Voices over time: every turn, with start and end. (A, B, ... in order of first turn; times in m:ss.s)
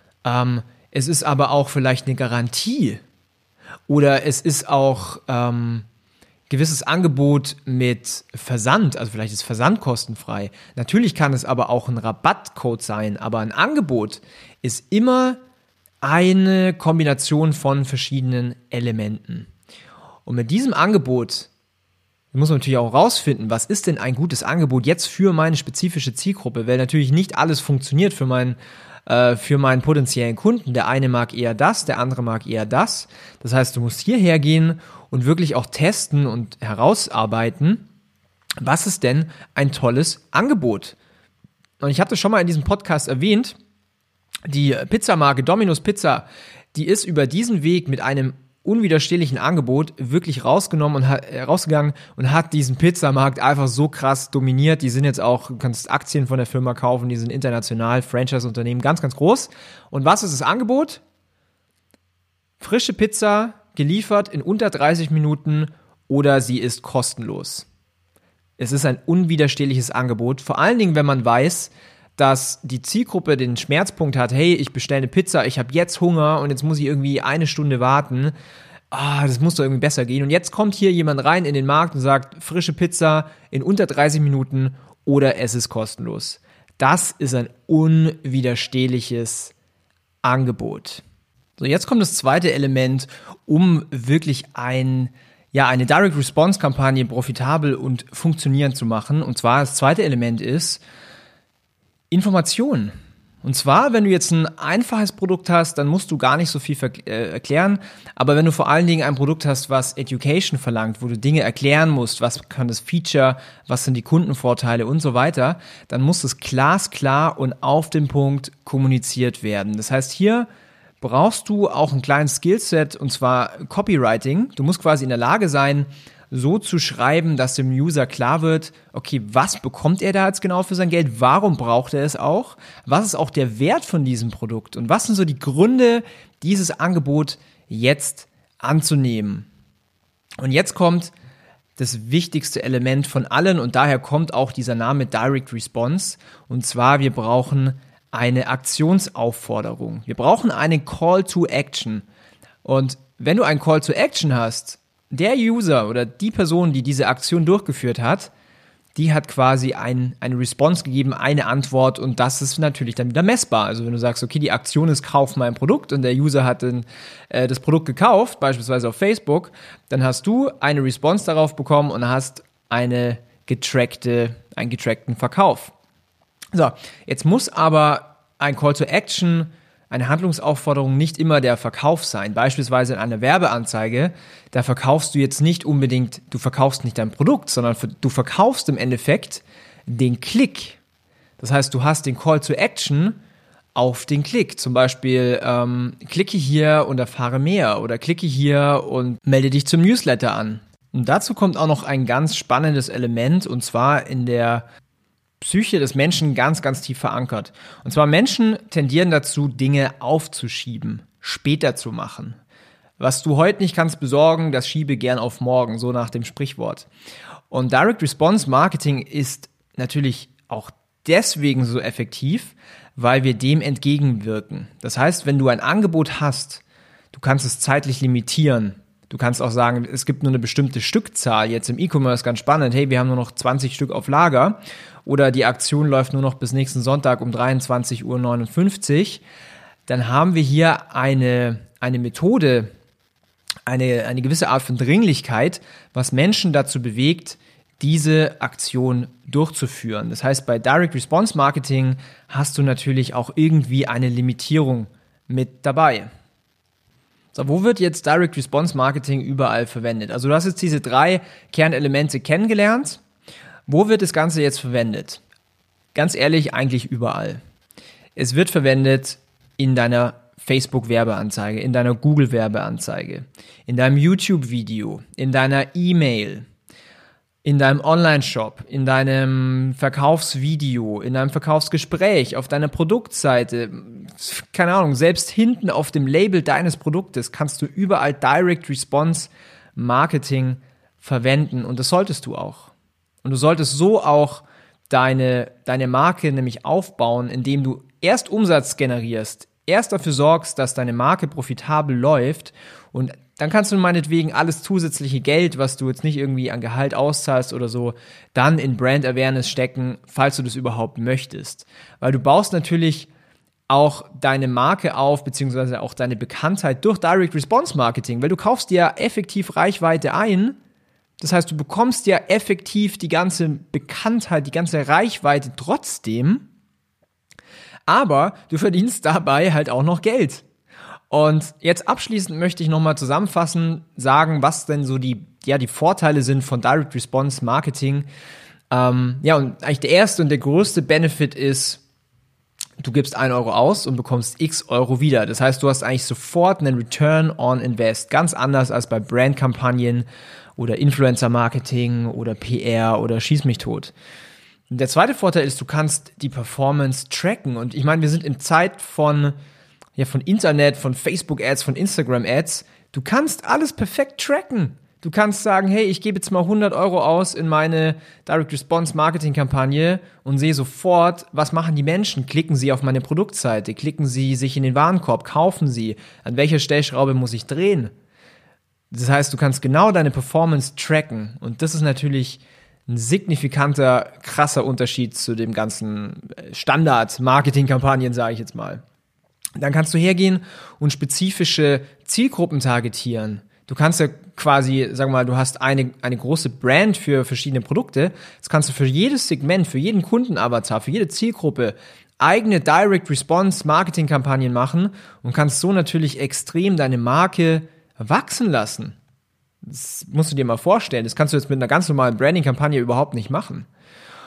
0:00.2-0:03.0 A
0:03.9-0:05.8 A
0:06.5-0:15.4 A
0:16.0-0:19.5 A
0:20.2-0:21.5 A
0:22.3-0:37.8 A
0:38.6-0:41.0 A
0:41.8-0:43.6 A
0:44.5-1:01.0 A
1:02.6-1:07.7 A
1:08.6-1:18.3 A
1:18.9-1:29.5 A
1:30.2-1:31.0 A
1:31.6-1:40.8 A
1:42.1-2:00.5 A
2:01.0-2:19.5 A
2:20.4-2:21.1 A
2:21.8-2:32.0 A
2:32.6-2:38.3 A
2:38.9-2:55.7 A
2:56.5-3:10.8 A
3:11.4-3:13.2 A
3:13.7-3:24.6 A
3:25.4-3:32.4 A
3:33.0-3:36.9 A
3:37.5-3:59.2 A
3:59.9-4:02.7 A
4:03.6-4:16.1 A
4:17.3-4:23.0 A
4:23.7-4:25.2 A
4:25.9-4:27.4 A
4:28.2-4:36.4 A
4:37.4-4:52.7 A
4:53.2-5:13.1 A
5:13.7-5:20.6 A
5:21.2-5:26.5 A
5:27.9-5:30.4 A
5:31.1-5:38.0 A
5:38.7-5:41.8 A
5:42.8-5:53.9 A
5:54.7-5:59.3 A
6:00.0-6:17.9 A
6:18.9-6:28.8 A
6:29.6-6:49.0 A
6:49.6-6:53.7 A